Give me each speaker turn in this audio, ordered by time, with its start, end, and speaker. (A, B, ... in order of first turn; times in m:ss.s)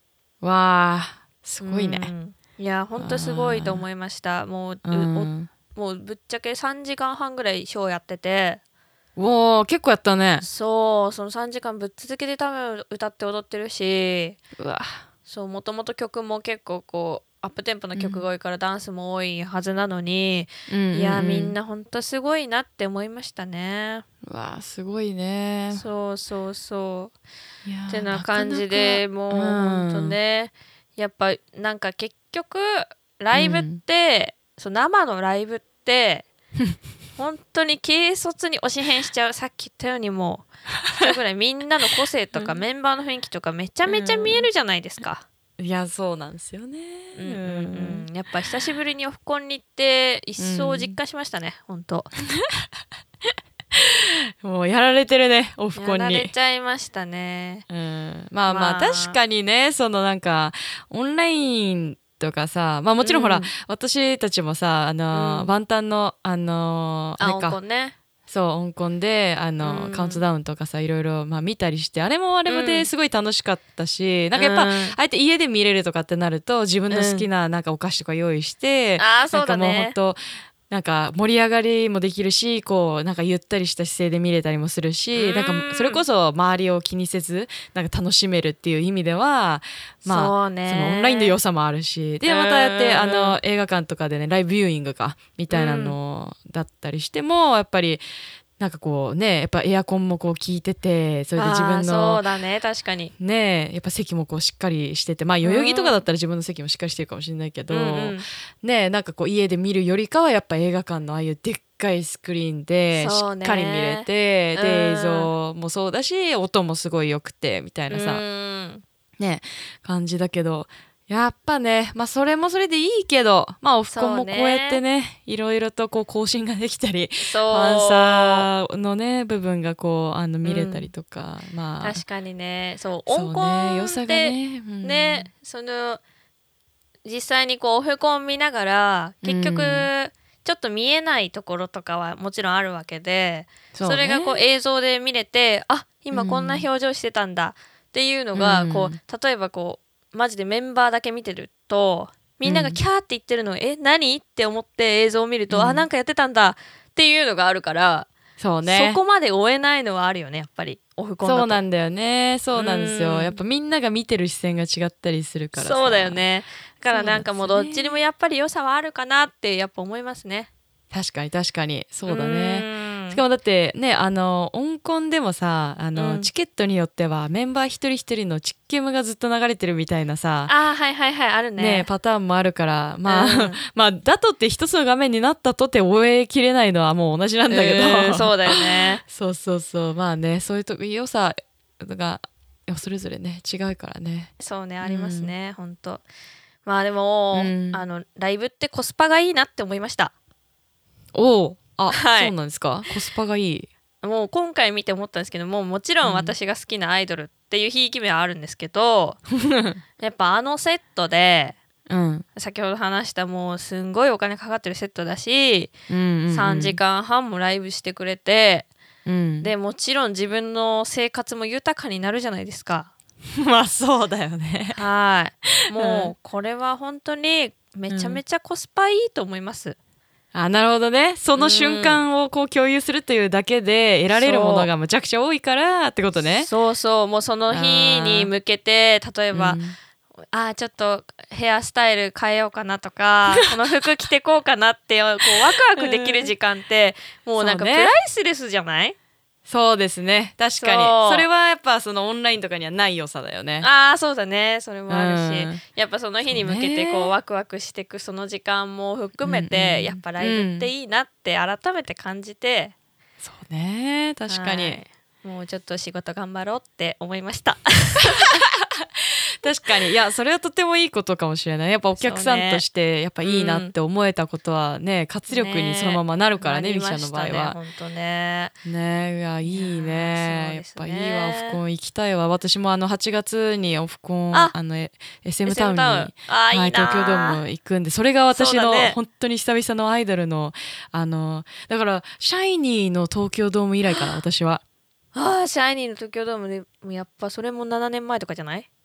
0:00.4-0:02.1 A
0:01.6-0:08.6 B
0:03.0-0:03.8 A
0:04.8-0:05.5 A
0:09.2-0:10.4 A
0:10.4-0:14.4 B
0:14.6-0:15.0 A
0:15.2-0:24.0 B
0:18.0-0:18.2 A
0:20.7-0:21.5 A
0:24.2-0:25.8 A
0:25.7-0:27.1 B
0:27.6-0:30.2 A
0:27.9-0:36.3 B
0:33.3-0:33.8 A
0:37.2-0:45.2 B
0:42.4-0:42.6 A
0:43.9-0:44.5 A
0:45.6-0:48.1 A
0:47.1-0:52.1 B
0:50.4-0:51.0 A
0:53.7-0:56.3 A
0:55.8-0:57.6 B
0:57.7-1:07.6 A
0:58.5-0:59.2 B
1:03.0-1:03.5 B
1:05.1-1:05.5 B
1:07.2-1:07.9 B
1:08.3-1:38.0 A
1:09.6-1:10.2 B
1:12.4-1:12.9 B
1:14.4-1:15.0 B
1:16.9-1:17.2 B
1:19.0-1:20.0 B
1:25.1-1:26.0 B
1:30.0-1:31.4 B
1:32.2-1:33.4 B
1:35.5-1:36.0 B
1:38.6-1:42.2 A
1:41.4-1:43.1 B
1:43.2-1:58.2 A
1:45.4-1:46.0 B
1:47.7-1:48.2 B
1:53.0-1:55.3 B
1:57.9-1:58.8 B
1:59.2-2:12.0 A
2:03.9-2:04.8 B
2:07.2-2:08.5 B
2:10.4-2:10.9 B
2:11.8-2:16.0 B
2:13.1-2:15.3 A
2:17.0-2:38.1 B
2:19.2-2:19.9 A
2:23.7-2:24.4 A
2:26.1-2:26.6 A
2:28.3-2:29.0 A
2:32.4-2:32.8 A
2:35.5-2:35.8 A
2:38.4-2:39.0 A
2:38.6-2:41.6 B
2:41.2-2:46.2 A
2:42.5-2:43.4 B
2:45.5-2:50.5 B
2:46.9-2:48.0 A
2:50.9-3:00.5 A
2:52.1-2:53.2 B
2:55.9-2:56.3 B
3:00.5-3:01.9 B
3:01.6-3:15.3 A
3:03.0-3:03.6 B
3:07.5-3:09.0 B
3:14.4-3:16.0 B
3:16.6-3:20.1 B
3:17.3-3:17.8 A
3:21.1-3:23.7 A
3:21.9-3:22.3 B
3:24.0-3:29.2 B
3:26.0-3:26.3 A
3:29.4-3:29.8 A
3:30.0-3:31.6 B
3:31.9-3:32.2 A
3:32.4-3:35.7 B
3:35.9-3:36.8 A
3:36.3-3:38.7 B
3:39.0-3:39.5 A
3:39.4-3:42.9 B
3:43.4-3:44.8 A
3:44.7-3:49.8 B
3:45.8-3:46.1 A
3:47.9-3:48.2 A
3:50.3-3:56.5 A
3:51.4-3:52.0 B
3:54.1-3:54.7 B
3:56.4-3:59.6 B
3:57.5-3:58.3 A
3:59.3-3:59.8 A
4:00.3-4:08.9 B
4:05.4-4:06.3 A
4:07.4-4:07.9 A
4:09.4-4:13.7 A
4:10.6-4:11.2 B
4:13.6-4:22.7 B
4:14.9-4:15.6 A
4:16.2-4:17.1 A
4:19.2-4:20.7 A
4:23.2-4:24.8 A
4:24.3-4:28.4 B
4:29.0-4:37.6 A
4:32.0-4:32.6 B
4:33.2-4:33.7 B
4:35.3-4:38.5 B
4:38.6-4:54.6 A
4:39.4-4:41.6 B
4:45.4-4:47.4 B
4:48.3-4:49.0 B
4:55.1-4:58.7 B